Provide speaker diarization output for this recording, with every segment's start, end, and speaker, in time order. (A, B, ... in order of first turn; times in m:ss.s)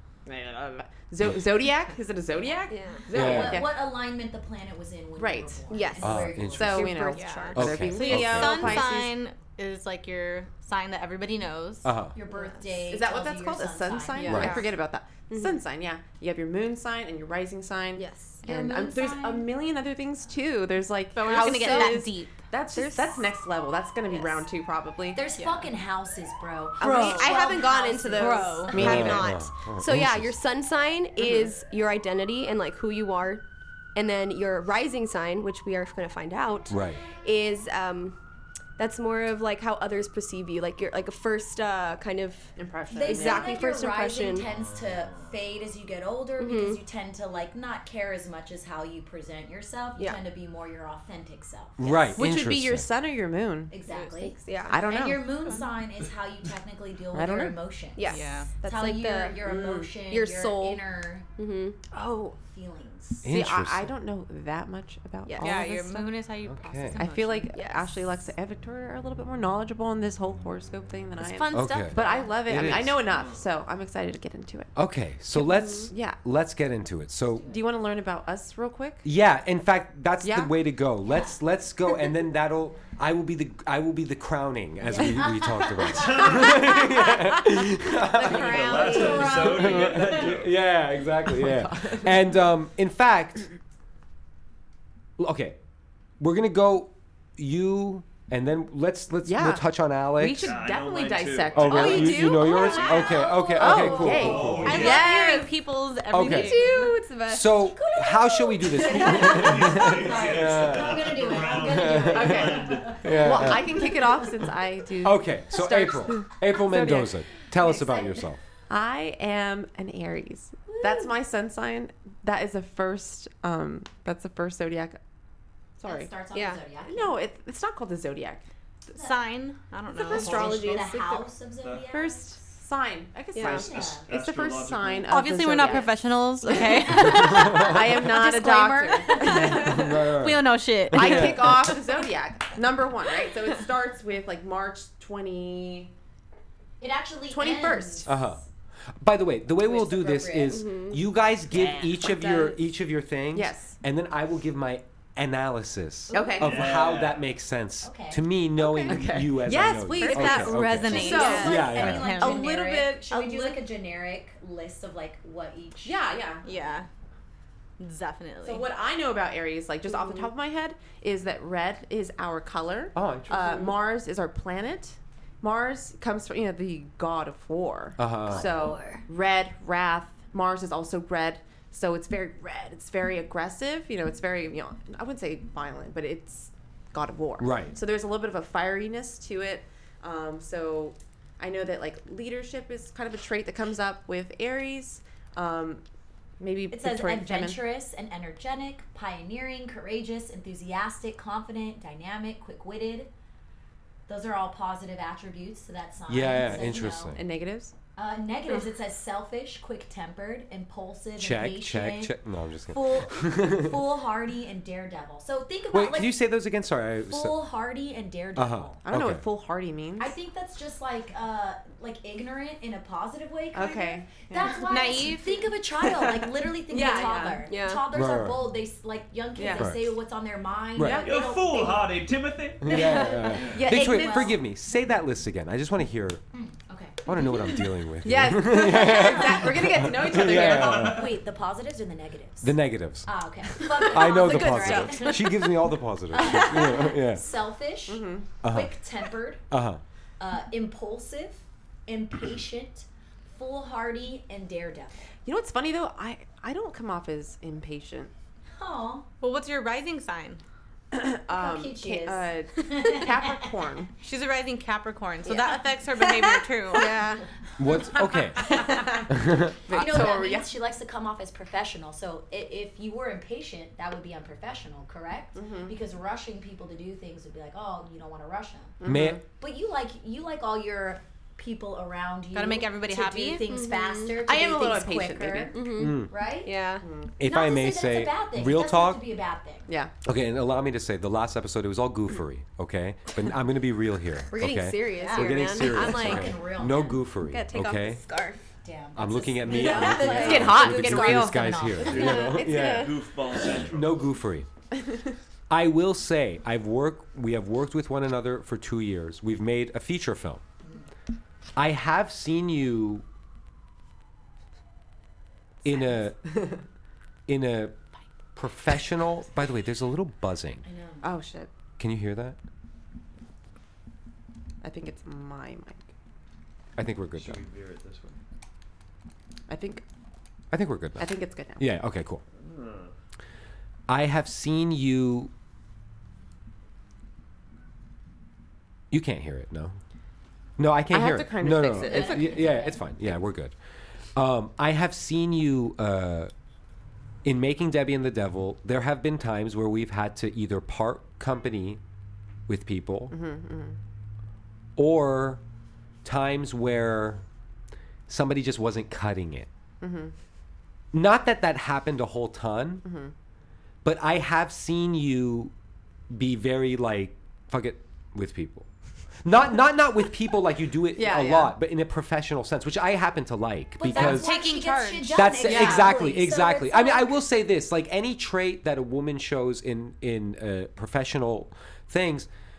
0:00.3-0:00.8 A
0:00.9-0:03.8 B
0:02.4-0:07.2 C
0:02.7-0:03.1 D
0:03.1-0:03.7 E
0:05.2-0:05.7 B
0:05.7-0:08.3 D
0:06.0-0:06.9 E
0:06.5-0:09.1 B
0:07.1-0:11.9 F
0:07.6-0:08.9 E
0:11.8-0:12.2 E
0:12.2-0:14.7 C
0:12.3-0:12.7 D
0:12.9-0:25.2 B
0:14.2-0:14.7 D
0:14.2-0:14.6 E
0:15.3-0:15.6 D
0:18.0-0:18.4 D
0:18.4-0:19.6 C
0:21.1-0:22.4 F
0:21.2-0:22.0 D
0:22.7-0:23.3 D
0:25.1-0:28.7 C
0:25.4-0:25.7 D
0:26.8-0:27.5 B
0:26.8-0:33.4 D
0:26.9-0:29.2 F
0:28.7-0:29.2 B
0:28.7-0:30.4 E
0:31.2-0:31.5 B
0:34.0-0:38.2 D
0:36.7-0:37.0 E
0:38.8-0:44.5 D
0:42.6-0:43.6 B
0:42.9-0:52.2 C
0:46.4-0:46.8 D
0:51.8-0:52.9 E
0:52.2-0:53.7 B
0:53.7-1:01.3 C
0:53.9-0:54.8 D
0:54.7-0:55.4 B
0:57.1-0:57.6 B
0:58.0-1:00.8 D
0:58.0-0:58.5 F
0:59.4-0:59.9 B
1:01.4-1:02.4 D
1:02.4-1:03.3 C
1:03.2-1:03.9 E
1:03.3-1:06.2 B
1:05.3-1:05.8 D
1:05.4-1:07.5 F
1:06.5-1:07.0 E
1:07.0-1:14.7 B
1:07.5-1:08.0 D
1:11.2-1:12.6 F
1:11.5-1:13.0 E
1:14.8-1:17.6 E
1:15.3-1:16.2 B
1:15.5-1:15.9 D
1:17.4-1:19.1 B
1:19.0-1:33.5 E
1:20.2-1:20.5 B
1:21.1-1:21.4 C
1:24.8-1:27.1 C
1:25.9-1:26.7 A
1:28.0-1:29.5 D
1:28.2-1:30.6 A
1:28.7-1:30.1 C
1:31.3-1:32.2 B
1:35.2-1:35.6 E
1:36.2-1:40.6 E
1:39.2-1:42.9 B
1:40.3-1:41.9 A
1:41.5-1:45.0 E
1:41.8-1:43.1 D
1:42.1-1:44.7 C
1:43.6-1:45.5 B
1:44.1-1:45.1 A
1:44.6-1:47.0 F
1:45.1-1:45.4 D
1:46.1-1:46.7 E
1:46.1-1:47.6 D
1:47.3-1:53.7 E
1:47.6-1:54.5 C
1:49.1-1:53.4 A
1:52.1-1:57.1 B
1:55.0-1:58.4 E
1:57.5-1:58.3 C
1:58.7-2:05.0 B
2:05.8-2:06.2 B
2:05.8-2:07.2 C
2:06.3-2:06.6 D
2:06.8-2:08.4 B
2:08.9-2:10.6 F
2:08.9-2:09.2 C
2:10.0-2:12.5 C
2:10.1-2:11.3 D
2:11.9-2:16.0 B
2:13.4-2:13.6 D
2:13.4-2:14.1 C
2:13.4-2:15.1 A
2:15.1-2:17.8 F
2:16.5-2:19.7 B
2:16.5-2:19.8 C
2:19.2-2:21.8 F
2:19.3-2:21.8 E
2:20.9-2:25.9 B
2:26.8-2:28.4 C
2:27.3-2:28.1 B
2:28.1-2:28.4 E
2:29.0-2:42.4 E
2:29.6-2:30.7 C
2:30.5-2:31.0 D
2:31.5-2:32.0 B
2:32.1-2:32.6 D
2:33.3-2:33.8 B
2:36.1-2:36.7 B
2:36.4-2:37.3 A
2:37.8-2:38.2 C
2:38.6-2:43.6 B
2:39.9-2:42.5 F
2:40.9-2:46.0 C
2:41.1-2:41.8 D
2:45.8-2:46.5 B
2:46.4-2:46.9 F
2:47.8-2:48.7 F
2:48.4-3:15.8 B
2:53.0-2:53.7 E
2:58.0-2:58.7 E
2:58.5-2:59.0 D
3:07.4-3:07.8 E
3:16.4-3:17.6 B
3:16.7-3:23.1 C
3:24.1-3:27.2 C
3:26.1-3:27.2 E
3:27.1-3:27.7 B
3:28.0-3:32.2 C
3:31.2-3:33.8 E
3:32.7-3:36.2 C
3:35.7-3:37.4 E
3:37.1-3:38.8 C
3:38.4-3:39.2 E
3:38.8-3:40.2 B
3:40.0-3:52.0 C
3:43.5-3:45.0 B
3:44.7-3:45.4 F
3:45.8-3:47.4 B
3:46.8-3:47.9 D
3:47.9-3:48.5 E
3:49.4-3:49.7 B
3:49.6-3:49.8 E
3:50.8-3:51.1 E
3:50.8-3:51.2 B
3:51.0-3:52.8 A
3:52.6-3:56.2 E
3:52.6-3:54.4 C
3:53.5-3:54.3 B
3:56.3-3:57.7 C
3:57.1-4:01.1 E
3:58.0-4:01.0 B
3:58.5-4:09.4 C
4:00.1-4:01.1 A
4:02.4-4:03.1 E
4:03.8-4:07.2 E
4:03.9-4:05.3 D
4:07.9-4:08.3 B
4:08.4-4:08.8 E
4:09.5-4:09.8 E
4:10.2-4:15.1 C
4:15.2-4:18.1 B
4:18.6-4:19.1 C
4:19.2-4:20.4 F
4:20.9-4:23.9 B
4:21.3-4:23.5 C
4:24.0-4:27.1 F
4:26.7-4:27.2 D
4:26.8-4:27.1 B
4:27.6-4:28.6 E
4:27.6-4:38.7 C
4:28.4-4:29.1 B
4:29.1-4:29.6 E
4:29.7-4:30.5 B
4:35.4-4:35.7 B
4:38.8-4:39.2 B
4:38.8-4:39.2 E
4:39.4-4:46.6 C
4:42.3-4:43.5 F
4:43.5-4:44.2 D
4:44.2-4:45.6 B
4:45.5-4:46.8 D
4:45.8-4:46.1 E
4:46.8-4:47.1 B
4:47.2-4:49.0 E
4:47.2-4:49.7 C
4:49.7-4:49.9 B
4:50.0-4:58.0 E
4:54.3-4:56.3 D
4:54.9-4:57.0 C
4:57.2-4:58.4 D
4:58.6-5:02.1 C
4:59.0-5:03.0 E
4:59.4-5:00.7 D
5:00.0-5:02.9 B
5:01.8-5:04.1 A
5:01.9-5:02.9 D
5:03.5-5:04.5 E
5:05.5-5:10.4 E
5:11.6-5:13.0 E
5:15.6-5:16.3 E
5:17.3-5:17.8 E
5:18.4-5:20.6 E
5:20.6-5:21.1 C
5:21.0-5:21.5 B
5:21.8-5:22.4 E
5:24.6-5:25.9 B
5:26.8-5:27.4 E
5:27.2-5:28.2 A
5:29.5-5:29.8 B
5:30.5-5:32.2 E
5:31.0-5:31.7 B
5:32.4-5:32.9 A
5:33.9-5:35.3 E
5:38.9-5:39.8 E
5:40.6-5:43.6 E
5:40.9-5:42.5 B
5:41.7-5:42.8 C
5:44.2-5:46.3 E
5:47.2-5:51.8 E
5:52.5-5:53.2 E
5:53.1-5:53.8 B
5:54.8-5:55.4 E
5:56.0-5:57.3 E
5:58.1-5:59.5 E
5:59.8-6:00.1 B
6:00.9-6:02.8 E
6:02.8-6:03.1 B
6:03.8-6:05.5 E
6:06.1-6:08.7 E
6:09.2-6:14.3 E
6:11.0-6:11.6 B
6:13.8-6:17.2 C
6:13.9-6:15.2 F
6:15.1-6:22.3 E
6:15.4-6:16.0 B